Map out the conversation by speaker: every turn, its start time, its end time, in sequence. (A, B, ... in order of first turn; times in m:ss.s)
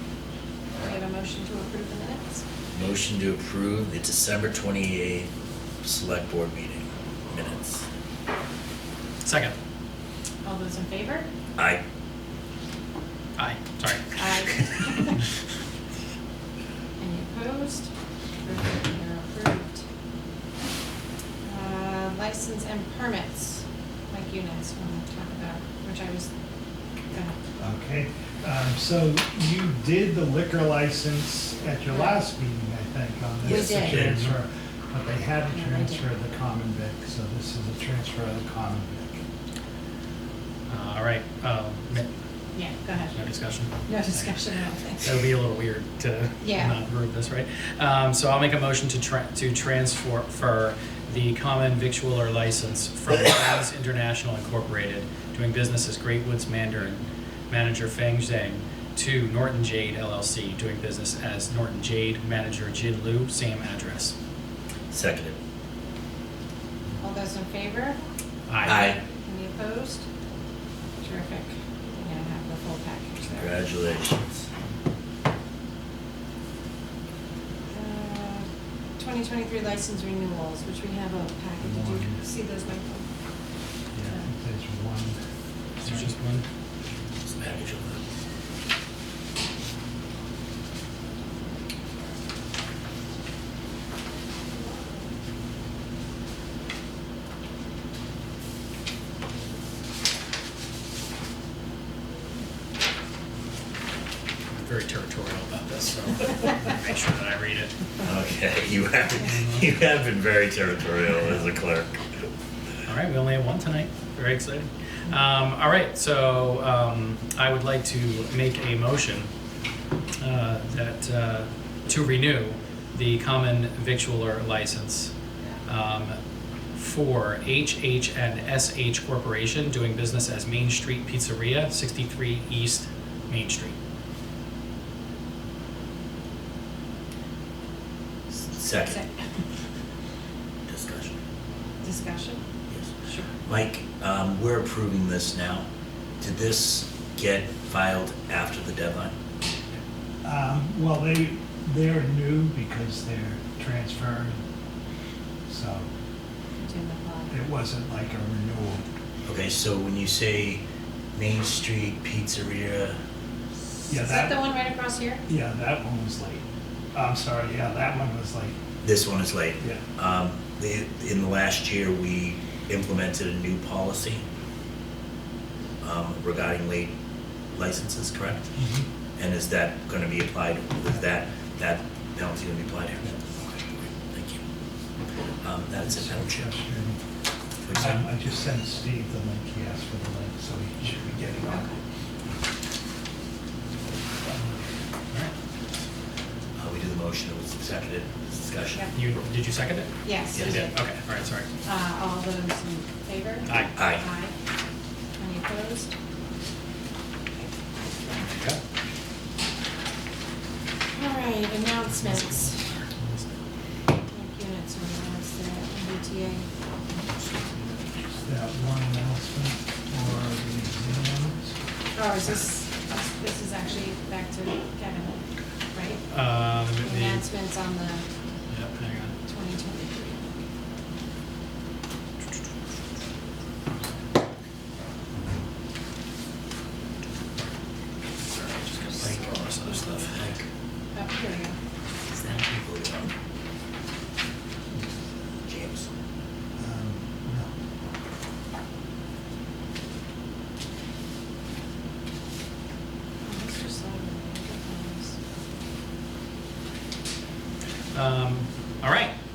0:00.8-0:02.4 A
0:02.7-0:05.3 B
0:05.8-0:07.8 B
0:09.2-0:09.6 C
0:10.4-0:11.3 A
0:11.6-0:11.8 B
0:13.4-0:14.2 C
0:14.1-0:15.2 A
0:17.0-0:17.9 A
0:18.4-0:19.8 A
0:21.4-0:26.3 A
0:27.6-0:39.2 D
0:31.9-0:32.2 A
0:33.4-0:34.0 A
0:33.9-0:34.3 C
0:35.5-0:36.0 A
0:40.7-0:42.1 C
0:42.5-0:43.2 A
0:43.1-0:44.4 C
0:43.8-0:45.2 A
0:45.0-1:04.1 C
0:46.4-0:46.8 A
1:04.9-1:05.4 B
1:07.0-1:08.0 A
1:08.5-1:08.8 C
1:08.6-1:10.0 A
1:08.6-1:09.0 B
1:11.0-1:13.6 A
1:13.4-1:14.4 B
1:17.7-1:23.1 A
1:21.6-1:22.2 D
1:23.9-1:25.2 D
1:25.8-1:26.4 C
1:27.2-1:28.0 B
1:44.5-1:47.8 C
1:48.0-1:52.0 B
1:49.2-1:49.6 C
1:52.8-1:59.3 C
2:00.2-2:05.1 C
2:05.7-2:06.2 C
2:06.7-2:13.7 C
2:18.5-2:19.0 B
2:18.9-2:19.2 A
2:20.7-2:21.2 B
2:21.8-2:22.4 A
2:22.7-2:25.7 B
2:23.0-2:23.3 A
2:26.2-2:29.1 B
2:30.2-2:34.4 D
2:35.5-2:35.8 D
2:36.6-2:37.3 A
2:37.3-2:38.8 D
2:39.2-2:40.6 B
2:41.1-2:43.0 B
2:43.9-2:44.4 D
2:43.9-2:45.2 A
2:45.3-2:48.6 D
2:48.8-2:54.2 B
2:55.8-2:56.9 B
2:57.5-2:58.5 B
2:58.6-2:58.8 D
2:59.2-3:03.2 B
3:04.1-3:04.4 B
3:05.4-3:06.5 B
3:05.8-3:07.0 D
3:07.6-3:08.0 B
3:07.8-3:11.7 D
3:11.5-3:11.8 A
3:16.6-3:18.8 B
3:18.9-3:21.5 C
3:20.0-3:20.8 A
3:20.3-3:20.6 B
3:21.6-3:24.3 A
3:23.5-3:23.7 C
3:23.8-3:24.0 B
3:25.2-3:25.9 A
3:28.2-3:28.6 C
3:30.9-3:32.7 A
3:32.0-3:33.2 C
3:34.1-3:36.5 A
3:37.2-3:37.6 C
3:38.1-3:41.5 D
3:41.9-3:46.0 A
3:46.1-3:47.2 C
3:46.8-3:48.1 A
3:48.5-3:49.1 C
3:49.2-3:50.2 A
3:58.3-4:00.2 C
3:59.0-3:59.9 A
3:59.0-4:00.4 B
4:00.9-4:01.6 A
4:02.1-4:03.1 B
4:05.4-4:05.9 B
4:06.6-4:07.5 D
4:13.2-4:15.2 A
4:17.9-4:19.1 C